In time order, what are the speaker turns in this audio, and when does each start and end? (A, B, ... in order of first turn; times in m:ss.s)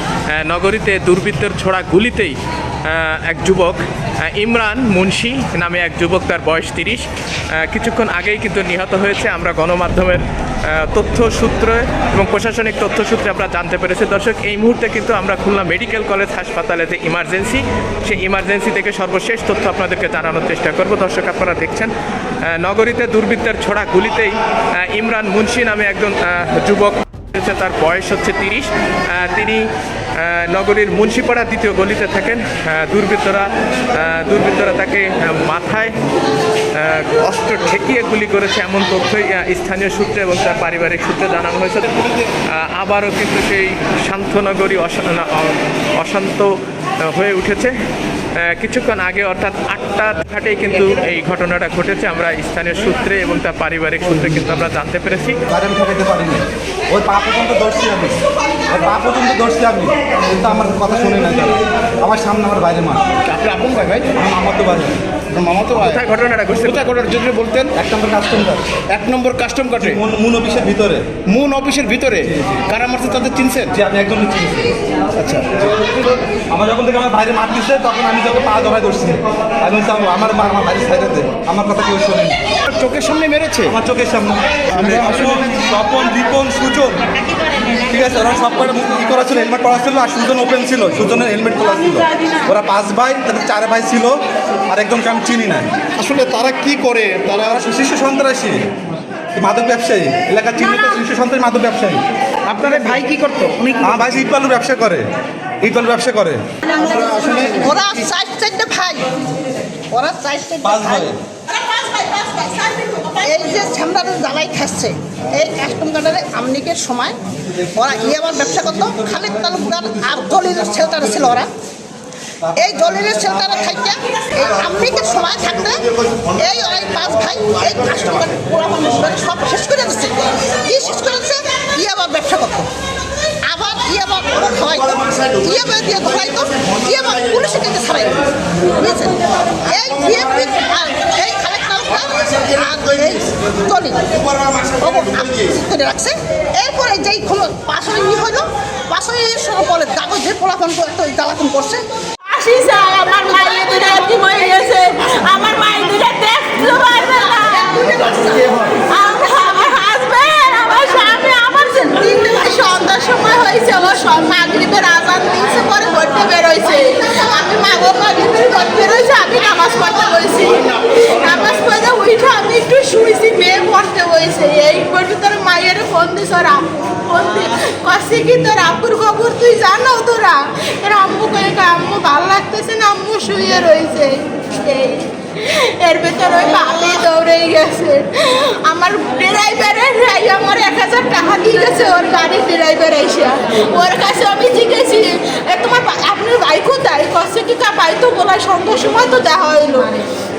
0:00.3-0:35.9 A
0:36.7-0:47.8 A
0:48.4-0:55.4 A
0:55.5-0:58.2 B
0:58.7-1:03.0 B
1:03.3-1:04.1 C
1:04.2-1:05.0 B
1:05.4-1:06.0 C
1:05.7-1:06.9 A
1:06.7-1:07.7 C
1:07.8-1:08.7 B
1:08.9-1:10.0 C
1:09.8-1:11.2 B
1:11.3-1:13.7 C
1:12.3-1:12.6 B
1:13.7-1:14.8 B
1:15.2-1:15.5 C
1:15.5-1:22.4 B
1:22.7-1:23.7 C
1:23.7-1:27.1 B
1:24.8-1:25.3 C
1:27.8-1:35.7 B
1:36.0-1:37.2 C
1:37.2-1:38.6 B
1:39.3-1:42.0 B
1:42.6-1:43.6 C
1:43.7-1:45.1 B
1:45.6-1:47.6 B
1:47.5-1:49.1 D
1:49.9-1:51.1 D
1:50.6-1:51.2 B
1:51.9-2:01.5 D
2:02.5-2:12.7 D
2:13.4-2:18.2 D
2:18.8-2:31.8 D
2:32.3-2:38.1 E
2:38.0-2:38.7 D
2:38.7-3:20.1 E